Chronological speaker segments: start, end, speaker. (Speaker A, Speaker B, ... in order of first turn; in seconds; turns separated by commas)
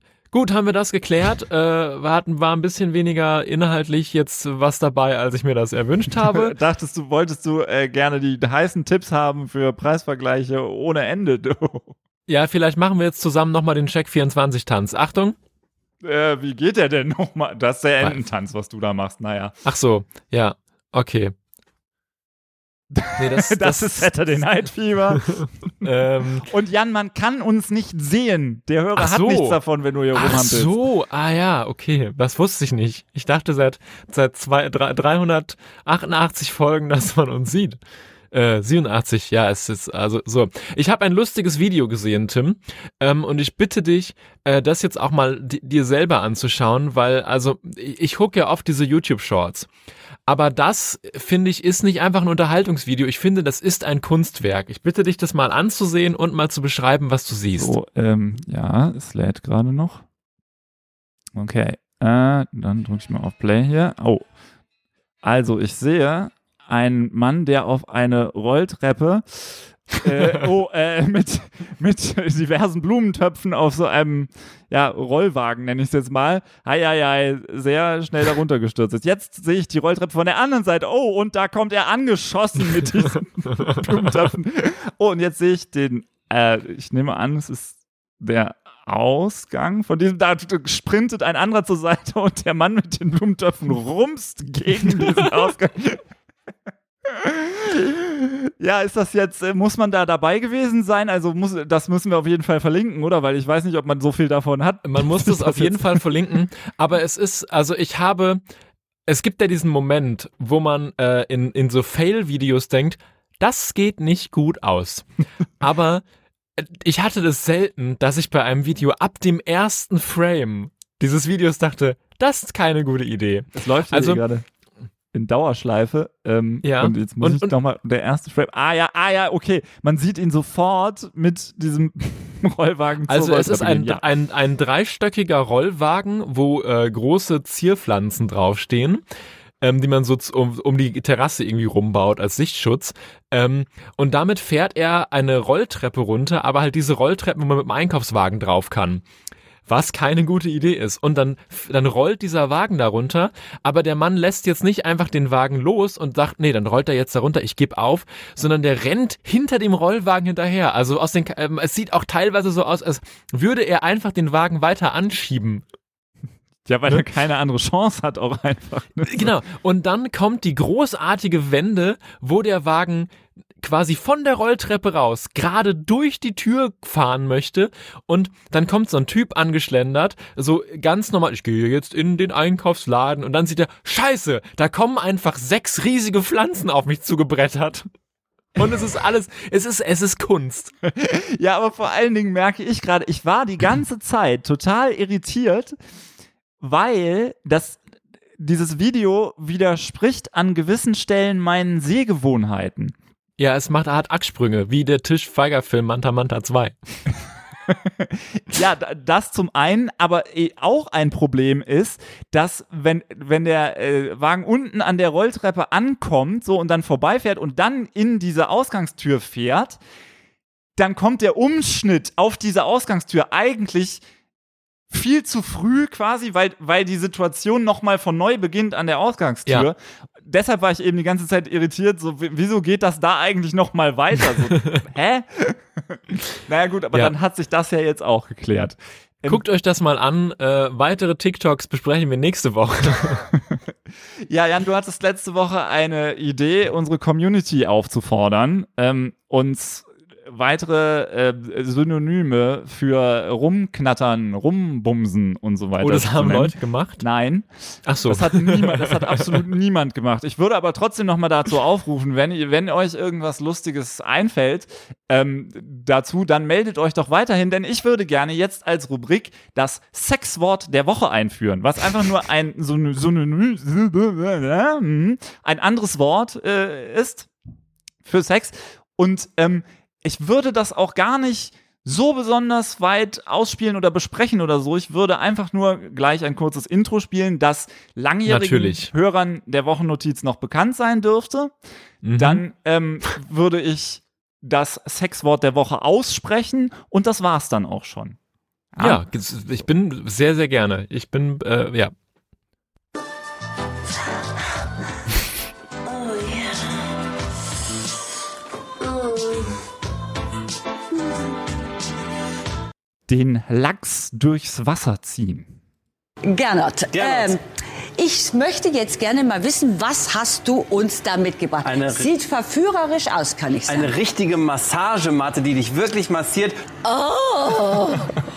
Speaker A: 0.3-6.5, Speaker B: 6.1-11.9, Speaker A: 12.3-15.4, Speaker B: 16.0-19.6, Speaker A: 19.6-21.3, Speaker B: 22.9-30.8, Speaker A: 23.2-24.5, Speaker A: 25.3-26.5, Speaker A: 29.0-29.6, Speaker A: 30.1-37.8, Speaker A: 38.3-49.7, Speaker A: 50.3-57.8, Speaker B: 57.6-60.0, Speaker B: 61.3-64.3, Speaker B: 65.2-96.0, Speaker A: 83.6-83.8, Speaker B: 97.0-106.0, Speaker A: 104.8-108.4, Speaker A: 109.1-115.1, Speaker A: 115.6-116.0, Speaker A: 116.6-124.2, Speaker B: 123.5-124.5, Speaker B: 125.1-134.1, Speaker A: 126.6-127.5, Speaker A: 133.1-139.0, Speaker A: 139.6-149.0, Speaker A: 149.7-165.6, Speaker B: 166.7-169.3, Speaker A: 169.1-187.9, Speaker A: 188.6-190.7, Speaker B: 190.8-195.8, Speaker B: 196.6-197.8, Speaker B: 198.4-203.0, Speaker A: 203.4-206.8, Speaker B: 207.7-219.8, Speaker B: 220.8-224.0, Speaker B: 224.9-239.4, Speaker A: 239.3-243.3, Speaker B: 244.3-257.5, Speaker A: 255.8-257.1, Speaker A: 257.9-259.4, Speaker B: 258.1-277.3, Speaker B: 278.1-291.5, Speaker A: 288.3-288.9, Speaker A: 292.0-292.4, Speaker B: 292.2-298.2, Speaker B: 298.7-299.0, Speaker A: 298.8-301.9, Speaker C: 305.9-306.7, Speaker B: 313.1-315.5, Speaker C: 316.3-317.4, Speaker D: 316.9-317.4, Speaker C: 318.0-323.9, Speaker D: 321.6-322.1, Speaker D: 323.7-326.6, Speaker C: 326.8-328.1